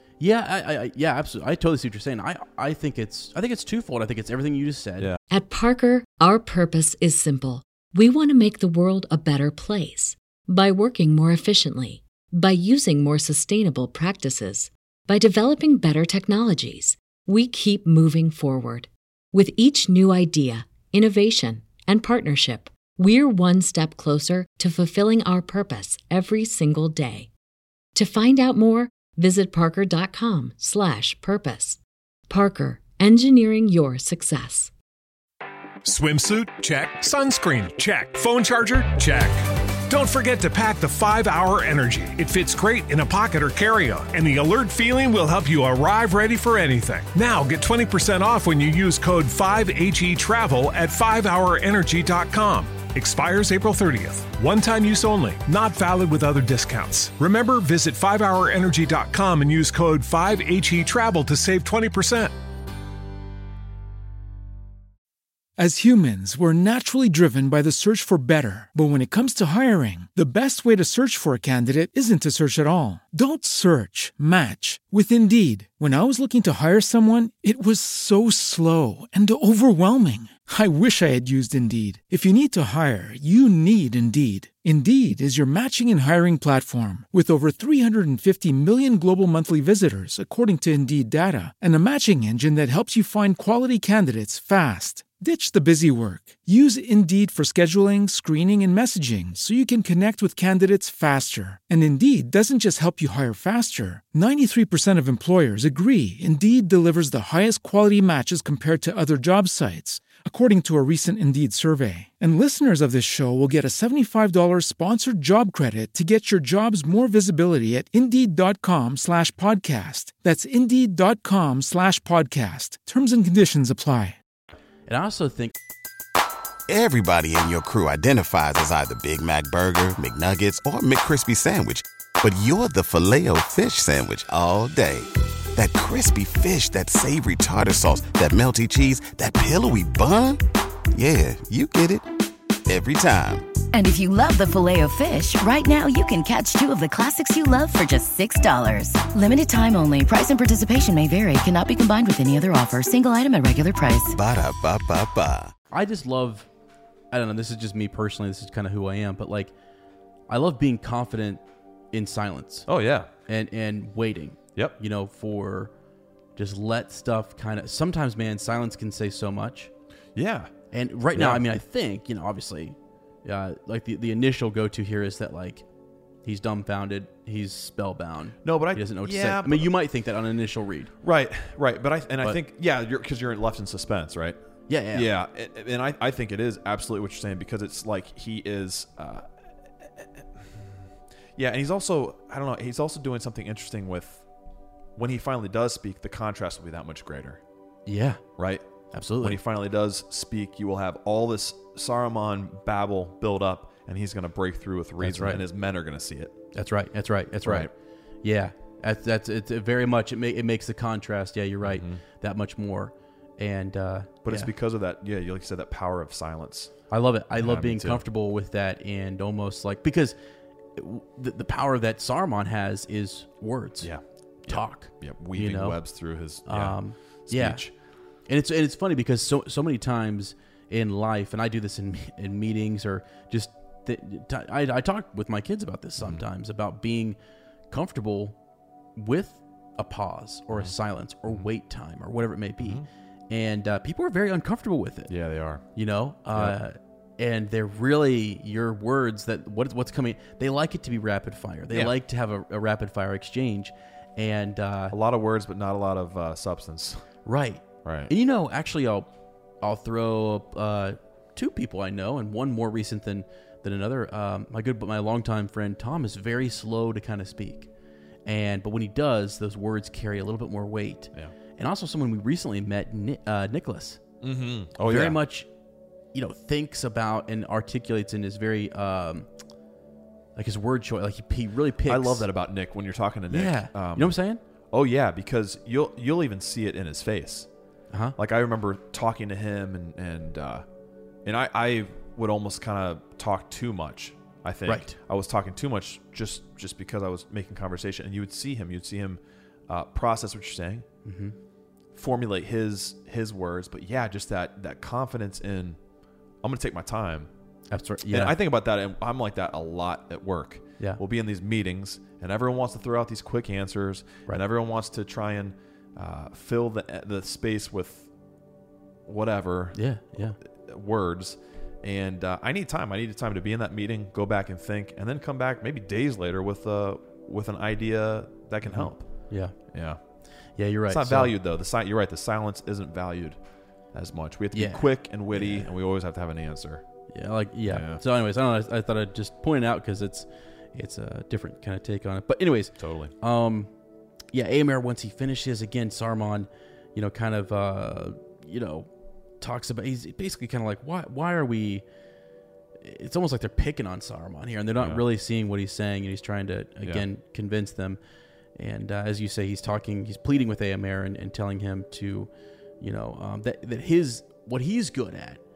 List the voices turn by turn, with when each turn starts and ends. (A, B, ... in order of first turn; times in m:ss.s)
0:00.2-0:05.1 A
0:05.3-0:27.3 B
0:27.9-0:34.7 B
0:35.8-1:02.3 C
1:05.6-2:04.2 D
2:04.9-2:05.5 A
2:06.7-2:22.1 E
2:22.7-2:23.5 E
2:23.7-2:34.2 F
2:34.1-2:35.5 E
2:35.7-2:36.5 A
2:37.1-2:39.5 A
2:40.3-2:42.7 A
2:42.7-2:43.1 G
2:43.3-2:45.7 A
2:46.4-2:49.7 A
2:50.2-2:50.5 G
2:50.7-2:55.6 A
2:51.1-2:51.4 G
2:56.2-3:00.9 A
2:58.4-2:59.7 G
3:01.0-3:04.4 G
3:04.7-3:05.1 A
3:04.9-3:09.2 G
3:11.4-3:14.2 G
3:15.0-3:17.4 G
3:17.8-3:18.2 A
3:18.4-3:18.6 G
3:18.9-3:19.4 A
3:19.2-3:26.4 G
3:25.0-3:25.4 A
3:26.5-3:27.7 A
3:27.4-3:27.7 G
3:28.2-3:34.5 A
3:31.6-3:32.0 G
3:34.2-3:36.7 G
3:36.9-3:40.2 A
3:37.4-3:38.0 G
3:40.8-3:43.9 A
3:43.8-3:47.7 G
3:44.5-3:45.8 A
3:46.4-3:47.6 A
3:48.3-3:57.2 A
3:56.0-3:56.2 G
3:57.7-3:58.4 A
3:59.0-4:05.1 A
4:02.6-4:02.8 G
4:05.1-4:05.6 G
4:05.7-4:14.9 A
4:06.3-4:06.6 G
4:14.9-4:17.0 G
4:17.2-4:19.1 A
4:17.8-4:18.1 G
4:19.6-4:27.7 A
4:28.2-4:34.0 A
4:34.2-4:35.2 G
4:34.9-4:35.5 A
4:36.1-4:39.3 A
4:40.4-4:42.2 A
4:41.9-4:44.2 G
4:43.3-4:44.4 A
4:44.7-4:47.5 G
4:48.2-4:50.6 G
4:51.2-5:00.8 G
4:54.6-4:54.9 A
5:01.0-5:01.3 A
5:01.9-5:05.8 G
5:06.4-5:07.3 G
5:07.7-5:08.3 A
5:08.1-5:18.1 G
5:19.1-5:30.0 G
5:19.7-5:20.4 A
5:28.6-5:29.5 A
5:30.6-5:31.3 A
5:30.9-5:33.4 G
5:33.9-5:36.8 G
5:34.5-5:35.7 A
5:37.1-5:43.7 A
5:37.7-5:38.0 G
5:42.8-5:43.1 G
5:44.3-5:48.9 A
5:49.4-5:51.8 A
5:52.8-5:58.0 A
5:54.8-5:55.0 G
5:58.6-6:05.4 A